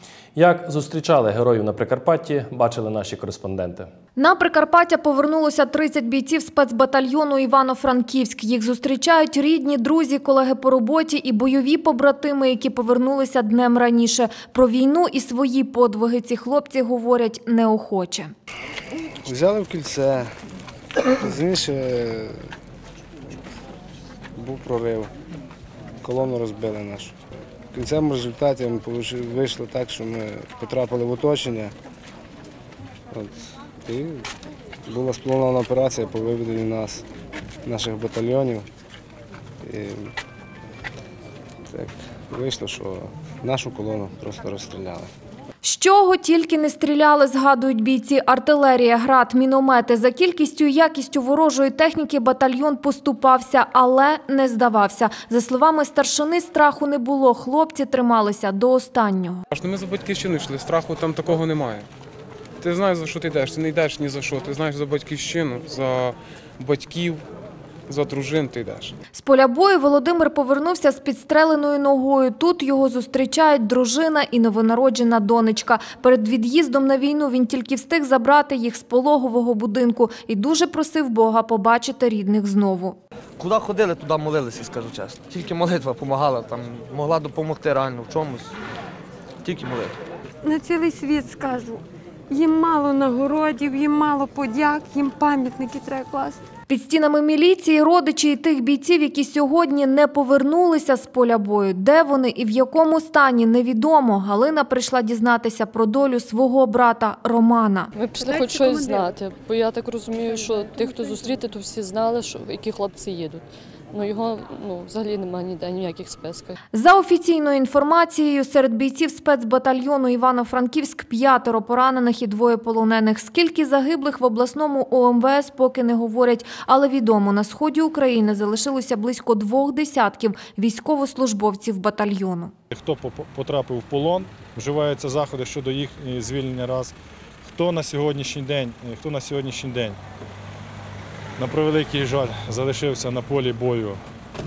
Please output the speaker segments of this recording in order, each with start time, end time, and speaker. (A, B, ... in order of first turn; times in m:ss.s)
0:00.3-0:03.9 A
0:04.2-0:18.3 B
0:19.2-0:20.3 C
0:21.2-0:22.4 C
0:24.4-0:25.1 C
0:26.0-0:27.2 C
0:27.7-0:31.7 C
0:33.1-0:34.3 C
0:34.9-0:37.0 C
0:37.6-0:38.7 C
0:39.6-0:40.1 C
0:41.7-0:45.1 C
0:45.6-0:59.4 B
0:59.5-1:01.9 D
1:02.6-1:07.2 D
1:07.9-1:09.0 D
1:09.1-1:23.0 B
1:23.4-1:28.5 E
1:29.4-1:30.0 E
1:30.4-1:36.4 F
1:36.7-1:47.9 B
1:47.9-1:56.6 G
1:48.2-1:49.1 F
1:50.3-1:51.3 F
1:56.7-2:12.5 B
2:12.7-2:20.0 H
2:21.4-2:24.0 H